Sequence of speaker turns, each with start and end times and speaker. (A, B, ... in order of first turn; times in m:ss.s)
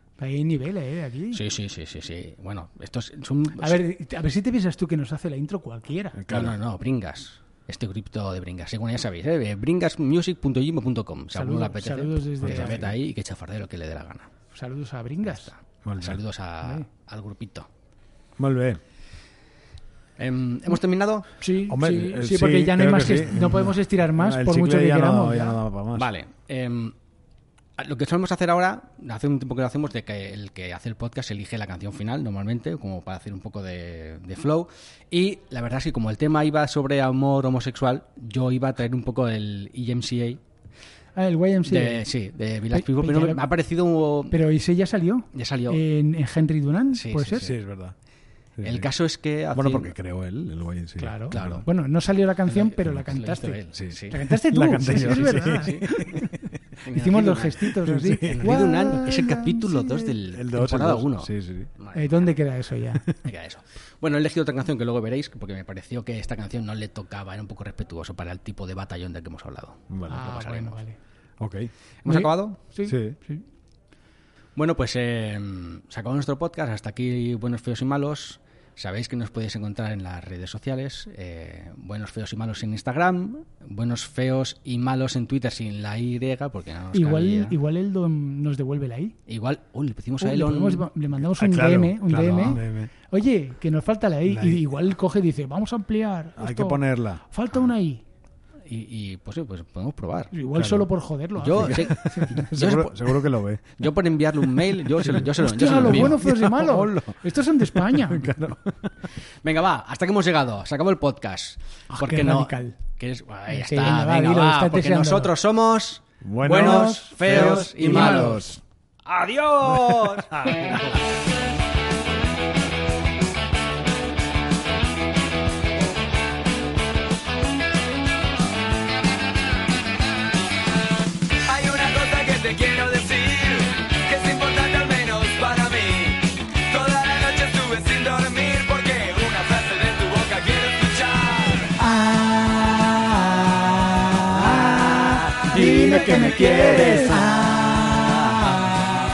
0:00.2-0:01.4 A
0:01.3-0:03.8 B
0:03.6-0:06.2 A
0:06.1-0:06.6 C
0:06.3-0:14.3 B
0:11.3-0:12.8 A
0:12.4-0:12.9 C
0:14.5-0:15.5 A
0:15.3-0:17.7 B
0:15.8-0:16.2 C
0:18.4-0:18.8 C
0:20.2-0:21.3 B
0:21.4-0:25.6 A
0:21.7-0:26.1 C
0:25.9-0:26.9 B
0:27.8-0:40.4 B
0:41.2-0:42.0 A
0:41.6-0:44.4 B
0:42.7-0:43.4 A
0:44.3-0:47.5 A
0:45.3-0:45.8 B
0:46.9-0:47.5 B
0:47.4-0:47.9 C
0:48.6-0:48.9 C
0:48.6-0:49.9 B
0:49.5-0:51.6 C
0:51.0-0:56.3 A
0:51.3-0:51.6 B
0:52.5-0:54.2 B
0:53.7-0:56.6 C
0:54.9-0:56.0 B
0:56.8-0:57.7 B
0:56.9-0:59.0 A
0:57.7-1:01.7 C
0:58.3-1:02.3 B
1:01.9-1:03.0 A
1:03.2-1:10.8 B
1:09.9-1:10.3 C
1:10.1-1:11.0 A
1:11.4-1:11.7 C
1:12.0-1:12.6 B
1:12.0-1:13.4 A
1:12.8-1:13.2 C
1:14.6-1:27.5 B
1:26.9-1:29.2 A
1:29.3-1:30.9 B
1:30.2-1:38.0 A
1:31.2-1:32.9 C
1:34.2-1:34.6 C
1:36.4-1:37.2 C
1:38.7-1:40.3 B
1:40.3-1:42.5 A
1:40.5-1:40.9 C
1:41.4-1:46.2 B
1:41.4-1:49.0 C
1:45.4-1:48.3 A
1:49.4-1:58.4 B
1:51.9-1:52.8 A
1:53.5-1:55.3 A
1:56.2-1:58.6 C
1:56.4-1:58.5 A
1:59.0-2:01.0 B
1:59.6-2:00.7 C
2:11.4-2:21.7 D
2:22.0-2:22.9 C
2:24.0-2:28.8 C
2:24.4-2:24.8 A
2:25.4-2:27.2 A
2:26.0-2:27.4 B